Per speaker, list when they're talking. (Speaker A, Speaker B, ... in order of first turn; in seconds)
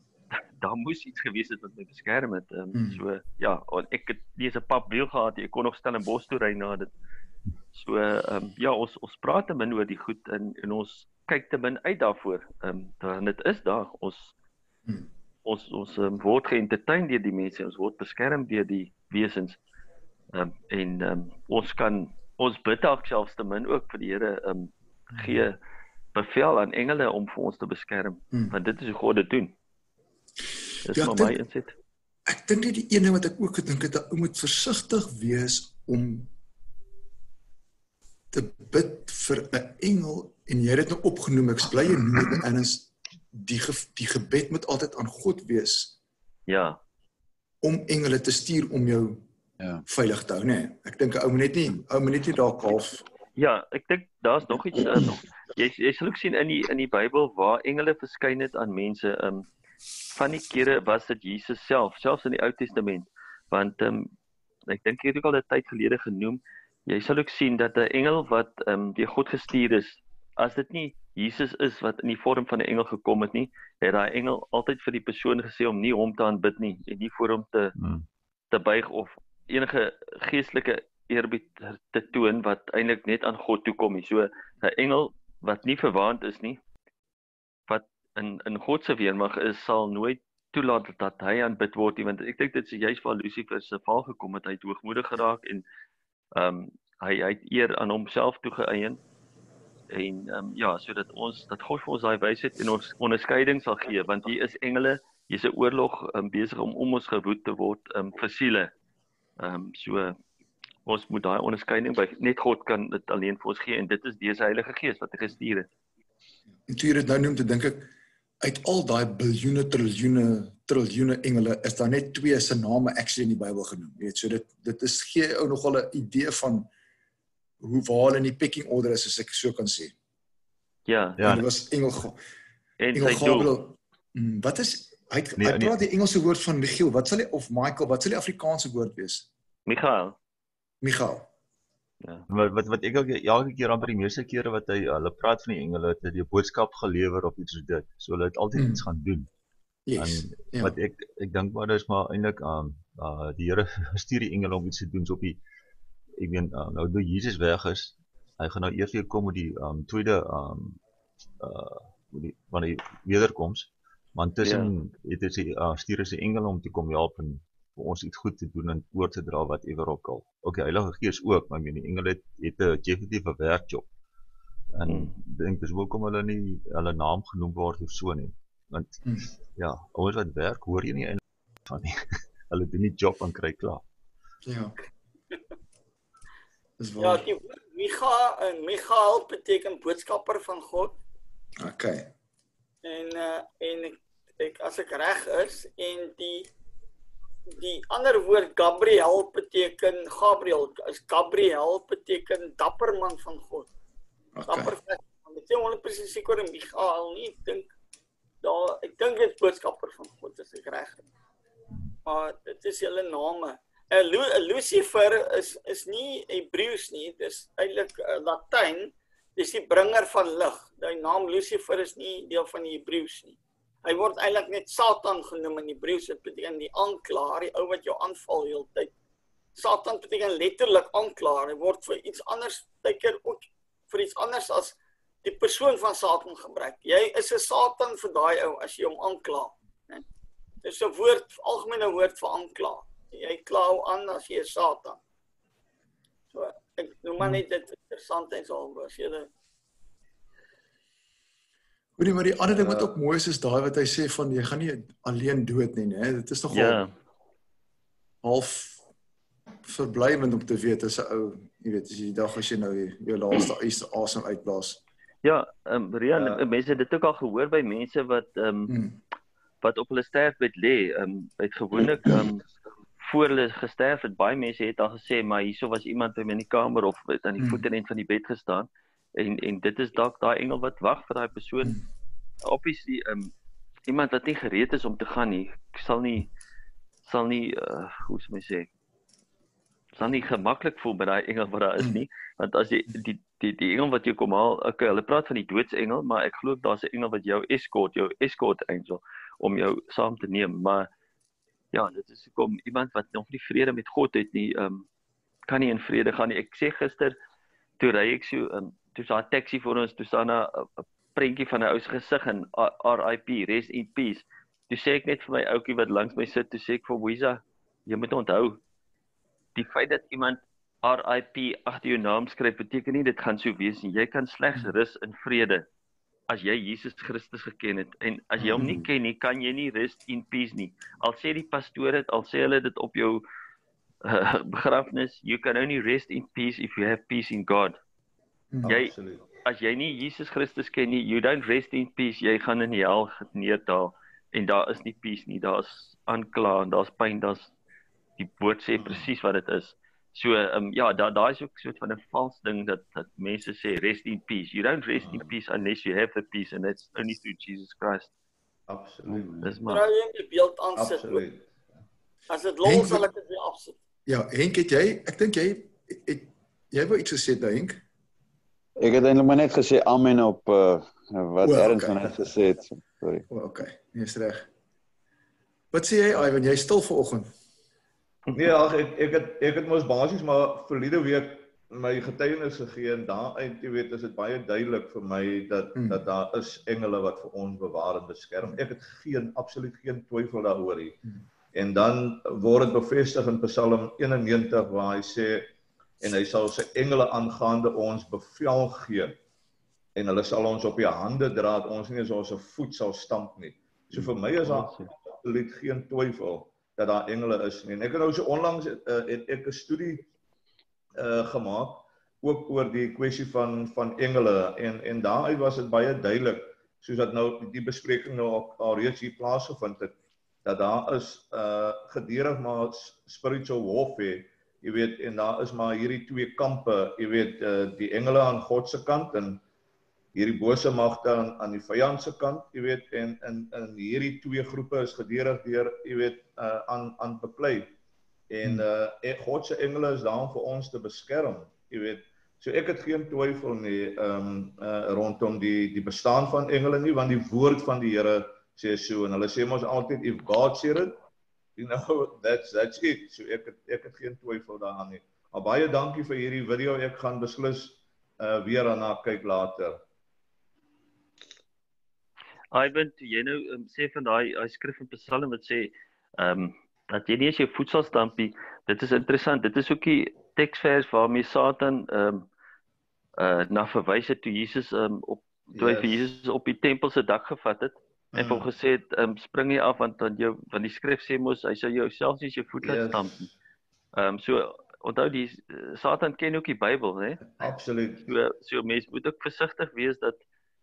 Speaker A: 0.3-6.9, 7.7-14.3, 15.4-19.6, 20.3-25.6, 26.1-29.5, 30.8-31.7, 46.5-46.8, 53.4-59.5, 60.1-64.1, 64.7-77.7, 78.5-86.6, 87.7-95.6, 96.3-99.0, 99.9-108.7, 109.4-110.2, 110.8-115.7, 130.9-131.2, 132.8-133.5, 139.7-140.2, 164.4-164.7, 174.9-175.1, 256.5-256.9, 265.2-268.7, 269.6-272.4, 273.0-281.8, 282.4-283.3, 283.9-286.3, 287.0-288.7, 289.9-300.9, 301.7-304.8, 305.5-307.1, 307.8-318.6, 319.6-325.6, 326.3-333.2, 334.0-337.8, 338.7-347.5, 348.2-358.1, 359.4-359.8, 403.9-404.9, 462.5-472.2, 473.2-483.3, 483.9-487.3, 488.0-490.2
Speaker B: 2.7-3.0, 30.9-31.3, 32.2-36.3, 38.3-45.9, 47.6-49.2, 49.9-53.0, 116.7-117.9, 118.4-126.7, 127.6-129.9, 131.2-132.2, 132.9-139.3, 140.8-141.3, 148.5-148.8, 149.9-150.7, 179.0-179.3, 184.4-184.7, 186.8-187.2, 191.6-192.1, 204.3-204.7, 252.0-256.8, 258.2-258.8, 259.6-264.8, 268.7-269.0, 277.4-277.6, 362.6-363.1, 364.1-367.8, 371.4-372.0, 373.3-374.5, 375.7-377.3, 385.8-386.0
Speaker C: 77.8-78.0, 131.2-131.5, 135.4-135.7, 142.3-149.3, 150.0-155.4, 156.2-160.8, 161.4-173.8, 174.7-179.0, 179.6-183.8
Speaker D: 187.0-191.0, 192.8-196.5, 197.5-203.7, 204.5-207.7, 208.4-211.0, 212.1-228.9, 229.6-240.0, 240.6-245.0, 246.3-249.3, 359.7-361.2, 362.3-363.8
Speaker E: 252.6-252.9, 338.7-339.3, 348.8-349.1, 355.0-355.3, 358.7-359.4, 360.8-361.6, 378.3-391.0, 391.5-395.5, 396.0-399.1, 399.9-410.1, 411.0-419.9, 420.4-429.4, 430.1-437.7, 438.3-450.9, 451.6-459.8, 475.5-475.9, 478.1-478.5, 482.6-483.1, 487.3-488.1
Speaker F: 359.1-359.5, 368.8-373.2